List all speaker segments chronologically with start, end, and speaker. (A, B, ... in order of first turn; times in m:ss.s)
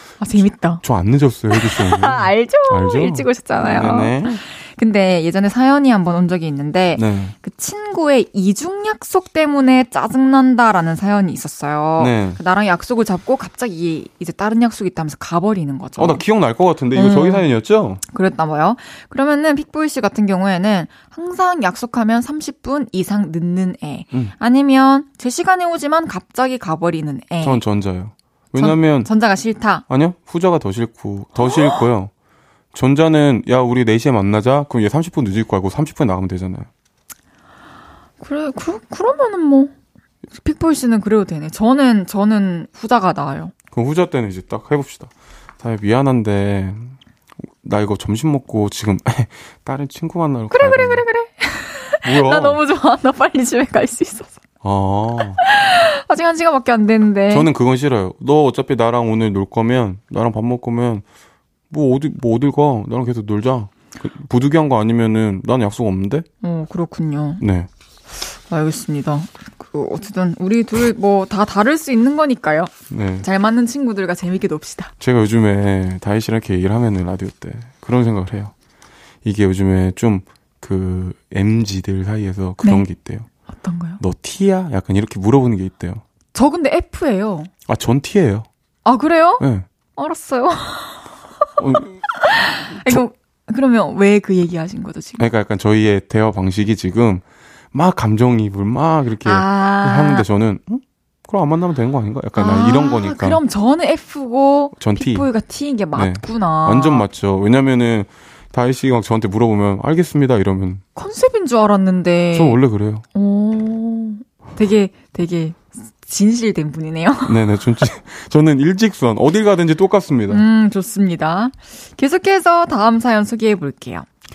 0:00.2-0:00.8 A
0:00.8-0:04.4 B
0:01.5-0:16.2 A
0:07.0-0:07.3 B
0:12.0-0:12.4 B
0:16.0-0:18.0 B
0:16.9-0:17.4 A
0:18.1-0:27.6 A
0:27.4-0:29.1 B
0:28.6-0:29.8 A
0:29.9-0:32.1 B
0:31.4-0:31.8 A
0:32.7-0:36.7 B
0:38.2-0:39.7 A
0:40.4-0:43.5 A
0:43.7-0:46.9 B
0:47.6-0:51.0 B
0:50.5-0:54.4 A
0:52.0-0:52.6 B
0:54.6-0:55.4 B
0:55.4-0:57.5 A
0:57.3-1:01.0 B
1:01.7-1:06.3 B
1:06.4-1:07.4 A
1:07.4-1:07.7 B
1:08.5-1:14.9 A
1:12.9-1:13.2 B
1:15.0-1:18.5 B
1:19.2-1:23.3 B
1:23.5-1:24.0 A
1:24.0-1:26.0 B
1:26.3-1:27.5 A
1:27.7-1:28.5 B
1:28.8-1:29.4 A
1:29.4-1:29.6 B
1:30.0-1:31.1 A
1:31.6-1:32.0 B
1:32.1-1:35.3 A
1:32.8-1:33.0 B
1:35.2-1:43.4 B
1:39.2-1:40.2 A
1:42.4-1:47.0 A
1:44.8-1:45.3 B
1:45.9-1:50.8 B
1:51.0-1:52.6 A
1:52.3-1:53.0 B
1:53.1-1:57.5 A
1:57.2-2:00.4 B
2:00.3-2:04.0 A